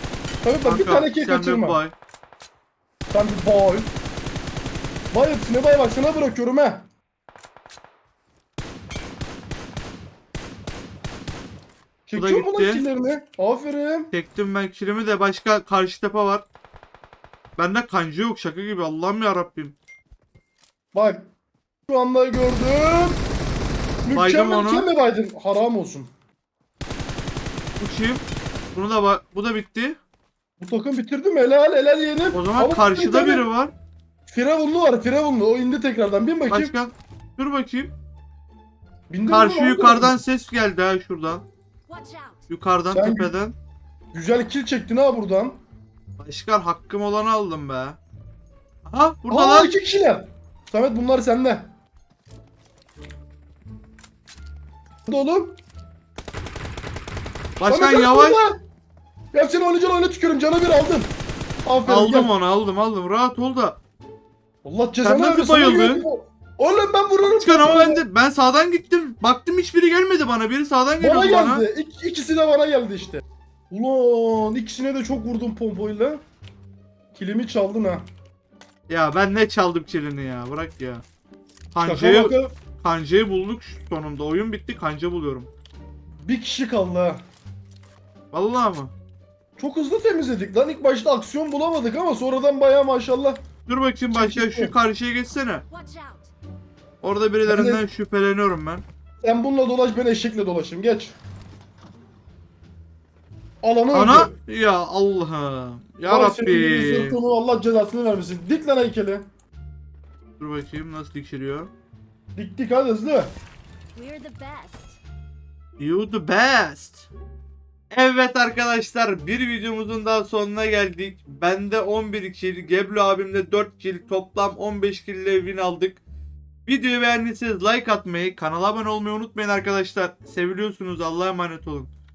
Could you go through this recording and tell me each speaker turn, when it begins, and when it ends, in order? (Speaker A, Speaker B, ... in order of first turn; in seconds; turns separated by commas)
Speaker A: 0.4-1.8, Speaker B: 0.6-1.9, Speaker A: 3.1-3.9, Speaker A: 5.1-6.8, Speaker A: 12.1-14.1, Speaker B: 12.2-12.8, Speaker B: 14.1-16.4, Speaker B: 17.6-19.8, Speaker A: 20.9-21.3, Speaker A: 21.9-23.2, Speaker A: 24.0-26.1, Speaker B: 24.1-24.9, Speaker B: 27.8-30.0, Speaker A: 30.6-33.5, Speaker B: 32.3-33.7, Speaker A: 34.3-36.7, Speaker B: 36.5-37.9, Speaker A: 39.1-40.2, Speaker B: 39.3-41.5, Speaker C: 41.9-42.4, Speaker B: 42.5-43.5, Speaker A: 42.9-43.3, Speaker A: 44.1-45.6, Speaker B: 46.2-48.0, Speaker B: 48.9-49.7, Speaker A: 49.3-51.7, Speaker A: 55.0-55.6, Speaker B: 57.6-58.4, Speaker A: 57.6-58.6, Speaker A: 59.3-61.1, Speaker A: 61.6-62.3, Speaker B: 61.8-63.8, Speaker A: 64.6-68.0, Speaker B: 65.0-66.0, Speaker B: 67.2-71.6, Speaker A: 71.0-76.2, Speaker A: 77.1-78.0, Speaker B: 78.9-81.0, Speaker B: 81.7-85.5, Speaker A: 81.8-82.5, Speaker A: 86.2-87.2, Speaker B: 88.3-88.9, Speaker A: 89.6-93.4, Speaker B: 93.7-95.7, Speaker A: 94.1-94.7, Speaker C: 95.7-96.3, Speaker B: 97.0-98.8, Speaker A: 97.5-97.8, Speaker A: 99.2-101.2, Speaker A: 103.6-104.3, Speaker B: 103.9-107.2, Speaker A: 106.0-109.2, Speaker B: 110.4-111.7, Speaker A: 112.3-113.3, Speaker C: 113.9-115.0, Speaker B: 115.8-117.1, Speaker B: 117.9-126.0, Speaker B: 126.7-131.9